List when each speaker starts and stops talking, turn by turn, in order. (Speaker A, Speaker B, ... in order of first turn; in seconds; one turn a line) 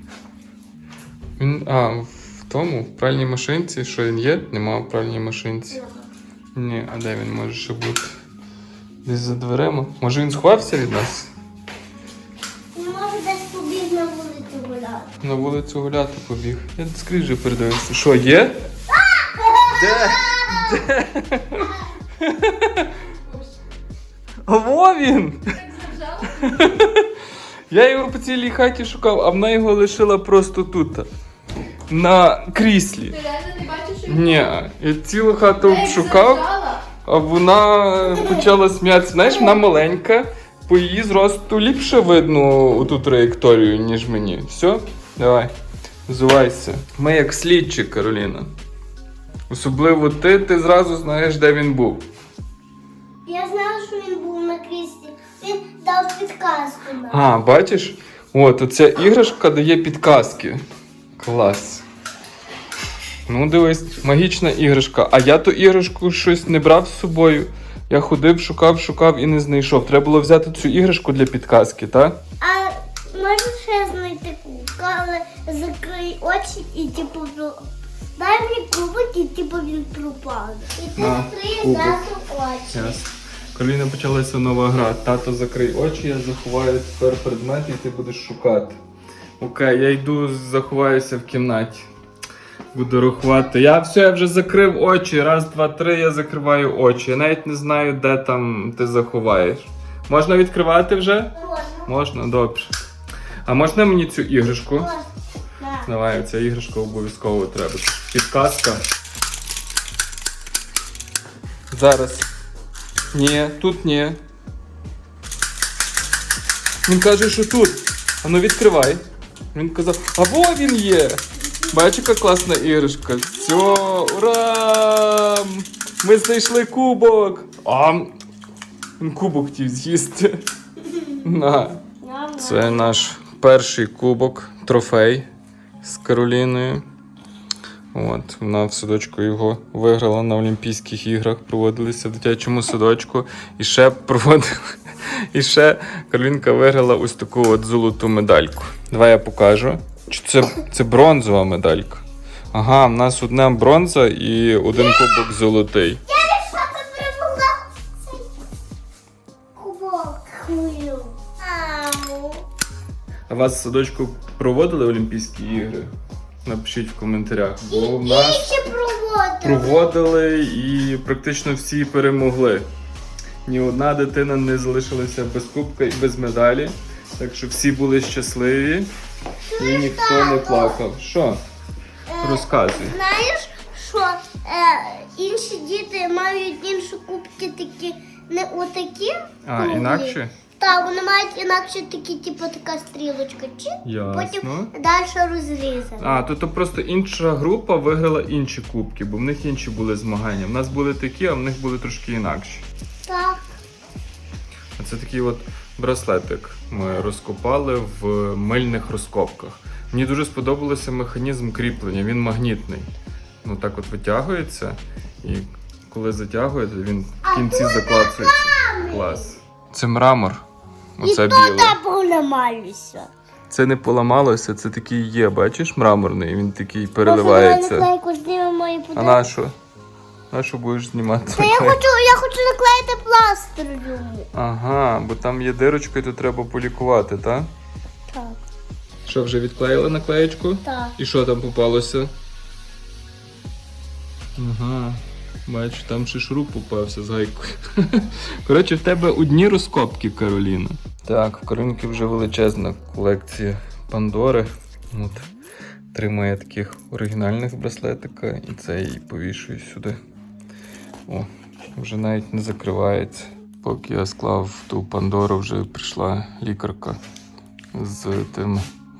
Speaker A: 1.4-5.8
Speaker A: 6.5-8.1
Speaker A: 9.0-11.3
Speaker B: 12.7-15.1
Speaker A: 15.2-18.6
Speaker B: 18.9-20.7
Speaker A: 19.7-22.9
Speaker A: 24.4-25.4
Speaker C: 25.7-26.4
Speaker A: 26.2-27.1
Speaker A: 27.7-31.1
Speaker A: 31.9-33.2
Speaker C: 33.2-34.4
Speaker A: 34.0-45.5
Speaker C: 35.6-36.8
Speaker A: 46.1-48.5
Speaker A: 49.5-52.0
Speaker B: 53.2-57.2
Speaker A: 57.1-60.6
Speaker A: 61.2-61.8
Speaker A: 63.3-72.2
Speaker B: 72.4-77.6
Speaker B: 78.2-83.0
Speaker A: 81.0-82.0
Speaker A: 82.7-88.8
Speaker A: 89.4-91.9
Speaker A: 92.7-102.7
Speaker B: 101.4-101.9
Speaker A: 103.5-104.9
Speaker B: 104.8-105.1
Speaker B: 105.6-105.9
Speaker A: 105.8-108.8
Speaker A: 111.7-112.3
Speaker A: 113.1-114.2
Speaker A: 116.8-128.1
Speaker A: 129.0-130.4
Speaker A: 131.2-131.8
Speaker B: 132.0-133.1
Speaker A: 132.4-135.2
Speaker A: 135.8-136.8
Speaker A: 137.9-156.0
Speaker B: 154.7-155.3
Speaker B: 156.1-158.3
Speaker B: 159.5-162.4
Speaker A: 163.3-165.9
Speaker A: 166.4-168.5
Speaker B: 167.6-169.8
Speaker A: 169.4-172.7
Speaker A: 173.4-178.9
Speaker B: 179.5-180.8
Speaker A: 179.6-181.4
Speaker B: 182.1-196.2
Speaker A: 182.2-182.9
Speaker A: 189.4-190.3
Speaker A: 193.8-194.7
Speaker A: 196.0-202.7
Speaker B: 203.1-203.4
Speaker A: 204.8-212.9
Speaker A: 213.4-220.4
Speaker B: 217.2-219.3
Speaker A: 221.0-221.8
Speaker B: 221.0-223.1
Speaker A: 223.5-227.9
Speaker B: 227.0-229.2
Speaker A: 228.9-229.5
Speaker A: 230.3-231.8
Speaker B: 231.3-234.3
Speaker A: 234.3-237.5
Speaker B: 238.1-238.4
Speaker A: 239.0-242.1
Speaker B: 240.6-240.9
Speaker A: 244.4-255.3
Speaker A: 255.9-260.0
Speaker A: 261.1-267.0
Speaker A: 267.7-268.6